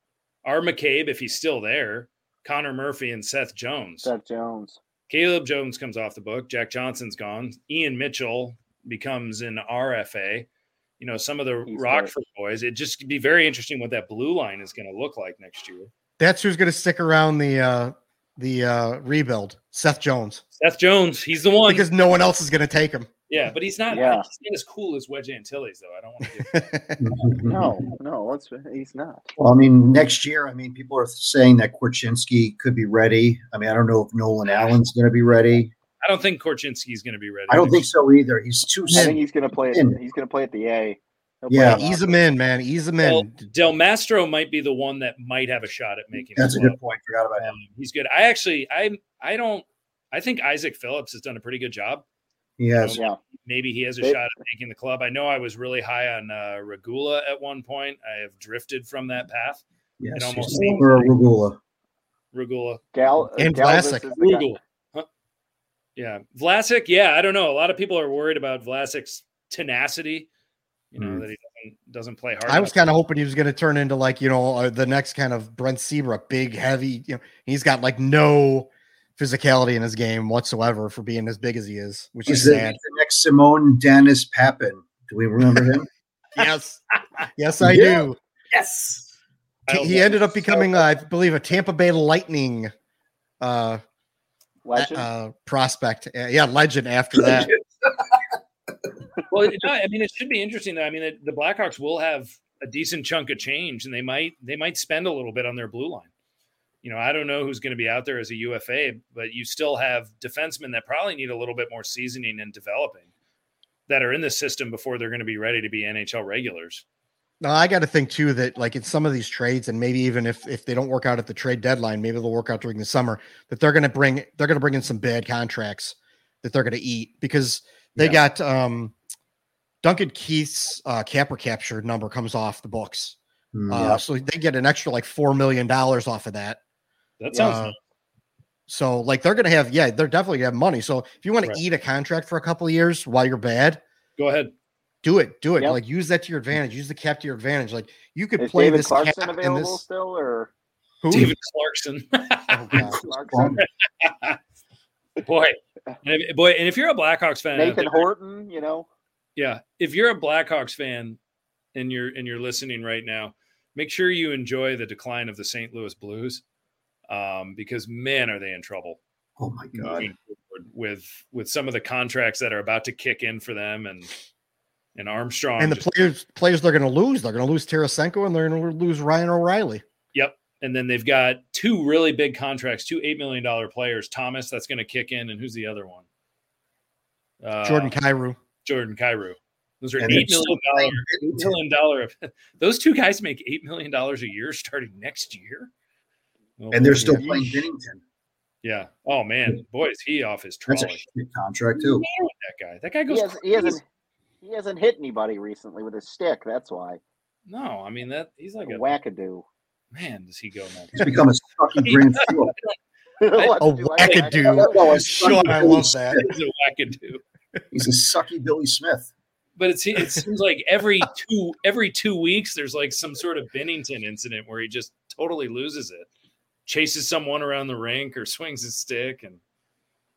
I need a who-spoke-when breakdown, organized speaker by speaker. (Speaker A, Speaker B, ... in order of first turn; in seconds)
Speaker A: 0.4-4.1, 5.1-10.5, 11.0-15.9, 20.6-21.9, 23.3-26.7, 34.4-34.8, 36.0-37.9, 43.0-46.8, 47.4-52.0, 52.8-59.6, 60.1-61.1, 62.3-62.8, 64.2-65.1, 66.0-70.3, 70.9-72.8, 89.7-90.8, 99.3-106.1, 106.8-113.1, 113.9-116.8, 137.2-137.7, 144.2-144.5, 151.1-152.9, 153.6-154.4, 155.2-158.0, 159.3-161.2, 161.7-166.4, 167.1-169.0, 169.7-174.1, 174.9-175.9, 180.1-186.0, 187.4-188.0, 188.6-195.7, 196.6-197.6, 198.6-201.0, 201.7-203.8, 207.5-208.8, 209.9-211.2, 211.8-212.7, 213.3-214.3, 215.2-215.6, 216.1-217.2, 219.6-226.1, 226.7-229.4
Speaker B: 4.0-4.8, 11.7-12.1, 23.9-24.2, 27.4-29.2, 38.9-42.2, 62.9-64.5, 94.6-95.1, 137.3-137.6, 148.4-150.5, 152.9-153.6, 157.5-158.9, 203.1-203.8, 204.4-207.0, 208.6-209.4, 213.2-215.1
Speaker C: 16.2-20.4, 21.6-23.1, 26.5-27.1, 38.9-39.2, 41.6-43.5, 63.4-64.1, 72.5-82.8, 86.3-86.8, 87.3-88.2, 89.7-92.7, 93.4-93.8, 94.7-97.5, 117.4-128.9, 129.8-133.2, 133.7-136.6, 137.3-137.7, 138.7-143.8, 145.0-149.8, 151.0-151.4, 152.5-153.0, 175.6-179.8, 187.6-188.4, 197.0-197.4, 213.6-216.2
Speaker D: 27.0-27.7, 29.4-35.7, 37.5-40.0, 41.5-41.8, 46.4-47.6, 52.6-53.0, 60.0-61.6, 71.0-71.2, 82.3-85.9, 87.6-89.0, 97.2-97.6, 133.5-134.0, 152.8-153.6, 169.4-170.1, 190.0-191.5, 196.7-198.0, 200.7-202.0, 210.9-212.5, 214.4-216.3, 217.7-219.1